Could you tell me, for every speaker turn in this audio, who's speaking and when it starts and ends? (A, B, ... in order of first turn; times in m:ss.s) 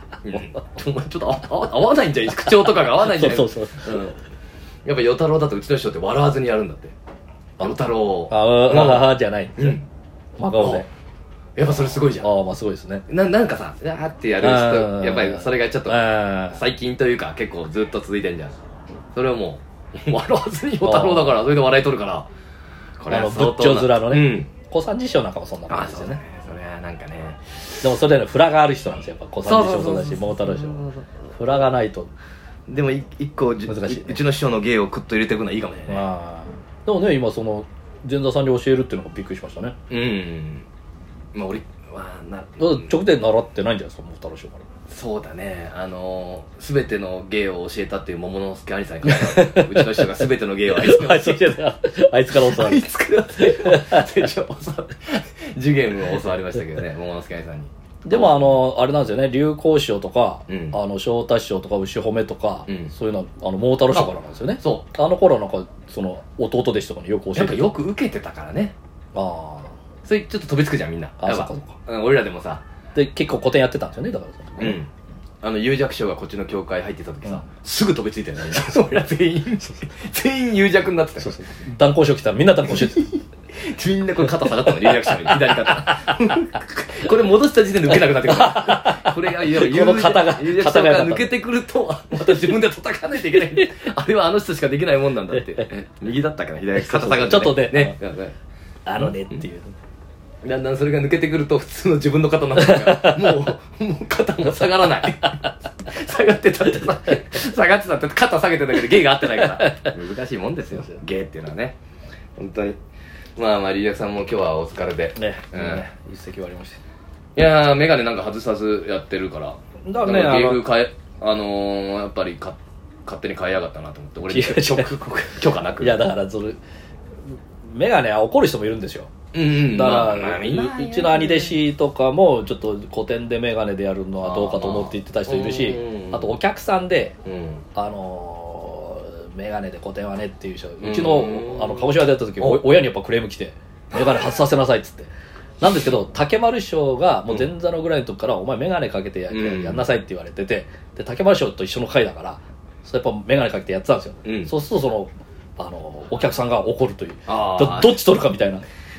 0:00.2-0:04.2 A
0:02.6-0:04.1 B
0:04.8-0:06.9 A
0:07.6-0:09.8 B
0:07.6-0:09.8 A
0:10.4-0:10.9 B
0:10.6-0:10.8 A
0:11.6-0:12.3 A
0:12.2-0:13.0 B
0:13.1-0:18.6 A
0:14.4-0:16.6 B
0:19.1-0:22.3 A
0:20.8-0:21.4 B
0:23.0-0:24.5 A
0:23.1-0:26.2 B
0:25.7-0:27.6 A
0:27.8-0:30.8 B
0:29.4-0:31.3 A
0:31.4-0:32.1 B
0:32.7-0:36.0 A
0:33.7-0:34.2 B
0:35.9-0:39.7 B
0:39.9-0:40.6 A
0:41.3-0:43.0 A
0:42.6-0:44.6 B
0:44.9-0:51.6 A
0:49.0-0:52.9 B
0:52.4-0:58.6 A
0:53.4-0:54.3 B
0:58.0-1:07.7 B
1:00.5-1:00.8 A
1:03.9-1:04.8 A
1:07.3-1:08.7 A
1:09.1-1:09.7 B
1:10.0-1:12.6 A
1:11.2-1:11.8 B
1:12.9-1:14.8 B
1:14.6-1:14.9 A
1:15.4-1:21.4 A
1:21.2-1:23.1 B
1:22.7-1:23.0 A
1:23.5-1:38.3 A
1:24.2-1:26.1 B
1:28.0-1:31.4 B
1:33.3-1:33.6 B
1:35.3-1:35.6 B
1:36.7-1:38.0 B
1:38.8-1:39.7 B
1:39.0-1:39.4 A
1:40.4-1:51.8 A
1:42.5-1:43.4 B
1:49.4-1:49.8 B
1:52.4-1:52.8 A
1:53.4-1:55.8 A
1:55.2-1:56.8 B
1:57.4-2:06.0 A
1:59.8-2:00.7 B
2:04.2-2:04.9 B
2:05.8-2:06.6 B
2:07.6-2:09.1 B
2:09.3-2:11.6 A
2:09.6-2:17.2 B
2:14.2-2:16.3 A
2:17.2-2:17.6 A
2:17.7-2:25.1 B
2:20.8-2:22.8 A
2:25.6-2:38.6 B
2:29.3-2:29.8 A
2:34.2-2:34.5 A
2:37.3-2:38.0 A